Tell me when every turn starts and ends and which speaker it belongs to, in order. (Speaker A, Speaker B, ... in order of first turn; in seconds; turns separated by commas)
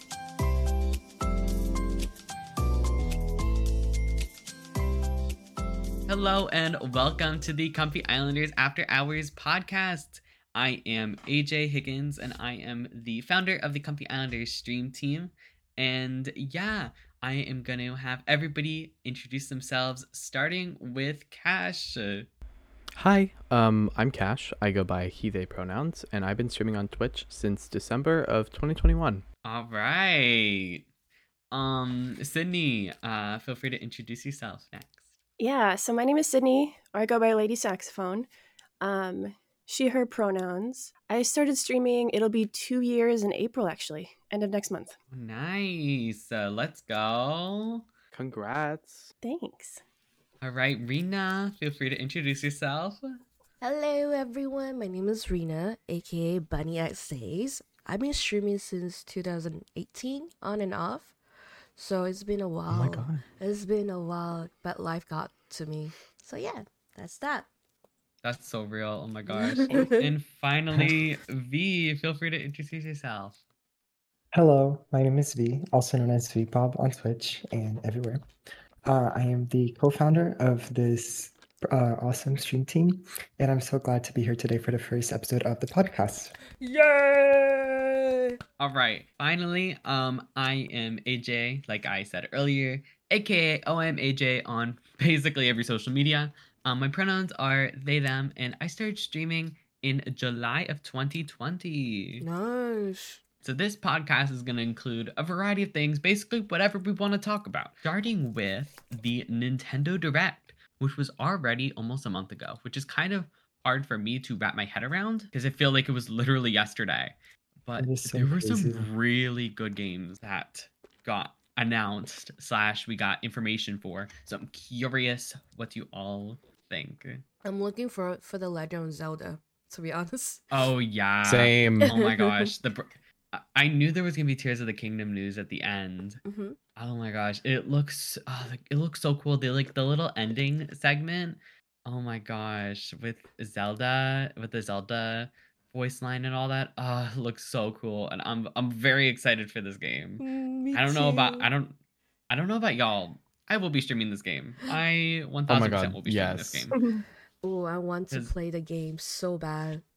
Speaker A: 6.1-22.3, Speaker B: 22.9-29.2, Speaker A: 29.4-30.8, Speaker A: 31.5-35.0, Speaker C: 35.4-38.3, Speaker C: 38.8-45.0, Speaker A: 45.1-47.8, Speaker B: 48.1-49.1, Speaker C: 49.2-49.8, Speaker A: 50.4-53.2, Speaker D: 53.6-61.1, Speaker D: 61.8-67.5, Speaker B: 62.7-63.2, Speaker A: 68.2-73.4, Speaker D: 69.3-70.1, Speaker B: 70.7-71.0, Speaker E: 74.3-78.2, Speaker E: 78.8-86.3, Speaker D: 86.6-88.4, Speaker A: 88.6-102.2, Speaker D: 102.2-103.2, Speaker A: 103.4-127.2, Speaker E: 117.8-118.9, Speaker D: 127.4-130.4, Speaker A: 130.5-136.2, Speaker B: 131.2-131.9, Speaker D: 131.9-132.5, Speaker D: 136.2-136.6, Speaker A: 136.8-151.8, Speaker D: 150.2-151.5, Speaker A: 152.3-156.8, Speaker B: 155.5-156.7, Speaker C: 156.7-157.0, Speaker D: 157.4-159.8